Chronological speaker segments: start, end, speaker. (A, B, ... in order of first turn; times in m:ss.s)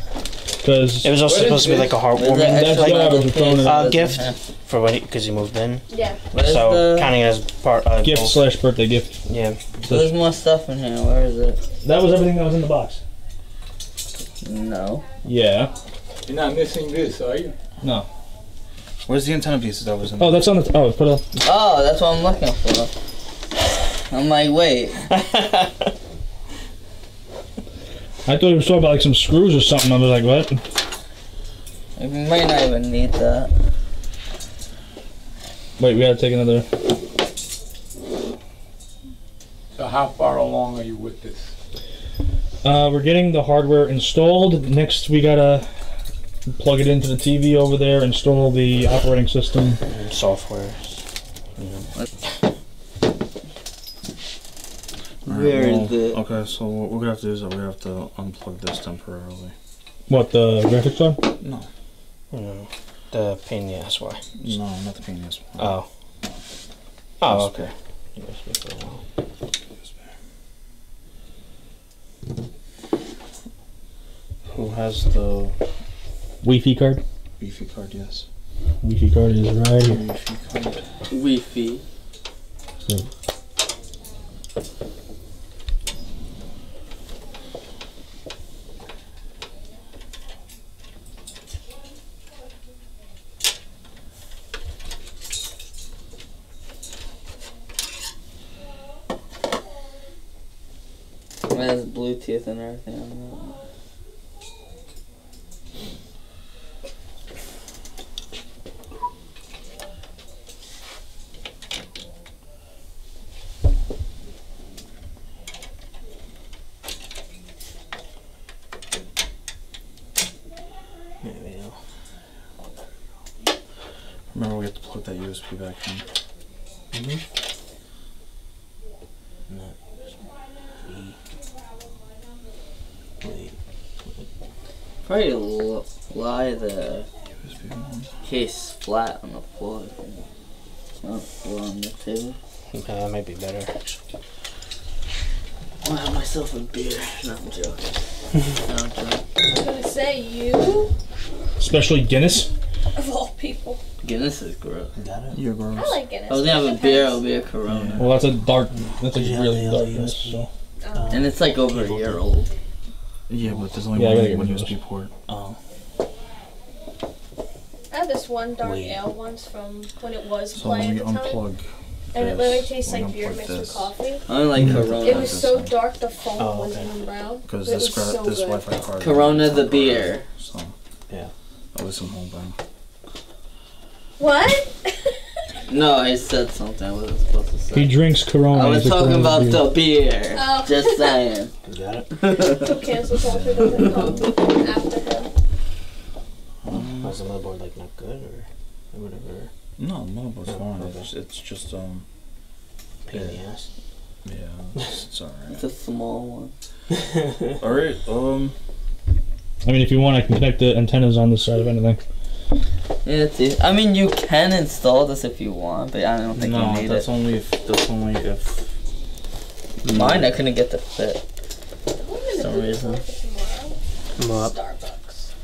0:00.6-0:01.5 A
0:01.0-0:08.4 B
0:01.2-0:02.2 C
0:02.2-0:04.4 D
0:02.4-0:04.1 A
0:05.9-0:06.2 E
0:06.3-0:07.2 D
0:08.0-0:09.2 A
0:09.3-0:09.6 B
0:09.9-0:11.6 D
0:11.8-0:13.0 A
0:14.4-0:15.0 D
0:15.2-0:15.7 A
0:16.3-0:17.5 C
0:17.8-0:18.1 A
0:19.1-0:20.5 F
0:20.2-0:21.2 A
0:21.4-0:22.9 D
0:24.1-0:25.0 D
0:25.1-0:25.8 B
0:28.3-0:30.6 A
0:32.0-0:33.5 D
0:35.8-0:36.7 A
0:39.8-0:41.5 C
0:42.6-0:45.7 A
0:46.5-0:49.8 A
0:49.9-0:51.1 B
0:51.6-0:51.9 B
0:55.3-0:56.2 D
0:55.3-0:59.5 F
1:00.1-1:01.3 A
1:01.4-1:01.7 F
1:02.3-1:04.2 B
1:04.4-1:05.8 F
1:05.6-1:05.9 B
1:07.2-1:09.0 B
1:07.2-1:07.7 F
1:14.5-1:15.5 F
1:16.4-1:17.0 A
1:17.4-1:18.3 F
1:18.8-1:20.0 A
1:19.8-1:20.8 F
1:21.1-1:21.8 D
1:41.5-1:43.6 D
2:01.2-2:01.8 B
2:04.3-2:06.1 F
2:06.9-2:07.2 B
2:09.5-2:10.0 B
2:10.8-2:11.2 B
2:13.2-2:14.3 B
2:15.0-2:17.1 D
2:17.4-2:18.1 F
2:18.2-2:20.3 D
2:21.0-2:22.4 D
2:22.7-2:23.9 B
2:25.8-2:29.2 D
2:29.5-2:30.9 E
2:31.6-2:32.5 A
2:33.0-2:33.8 E
2:34.0-2:34.9 D
2:35.0-2:35.4 B
2:35.3-2:36.0 F
2:35.7-2:37.3 E
2:36.3-2:38.1 D
2:37.6-2:38.3 F
2:38.0-2:40.5 A
2:39.1-2:40.4 F
2:40.8-2:41.2 E
2:41.0-2:42.1 F
2:41.1-2:42.5 D
2:43.3-2:45.6 F
2:43.9-2:44.8 A
2:47.9-2:51.4 E
2:48.6-2:49.0 B
2:50.5-2:53.9 F
2:52.1-2:58.7 E
2:54.3-2:55.5 D
2:54.6-2:55.8 F
2:56.4-2:56.9 B
2:57.4-3:00.7 F
2:59.0-3:00.2 D
3:01.7-3:02.6 F
3:04.2-3:05.2 E
3:05.7-3:11.5 D
3:07.7-3:09.7 A
3:10.3-3:11.2 E
3:11.6-3:12.1 B
3:12.2-3:12.8 D
3:12.5-3:15.3 E
3:13.3-3:14.0 B
3:13.6-3:13.9 F
3:16.6-3:17.2 F
3:16.7-3:19.5 B
3:19.8-3:22.1 F
3:20.5-3:21.1 B
3:23.1-3:23.7 B
3:23.1-3:23.4 F
3:24.2-3:25.6 F
3:25.5-3:26.5 D
3:27.0-3:27.4 B
3:27.6-3:28.6 F
3:29.6-3:32.0 A
3:33.0-3:37.1 D
3:36.3-3:38.7 F
3:39.8-3:40.3 F
3:39.9-3:41.2 D
3:42.0-3:43.8 E
3:42.3-3:43.0 D
3:44.2-3:44.5 B
3:44.5-3:45.2 D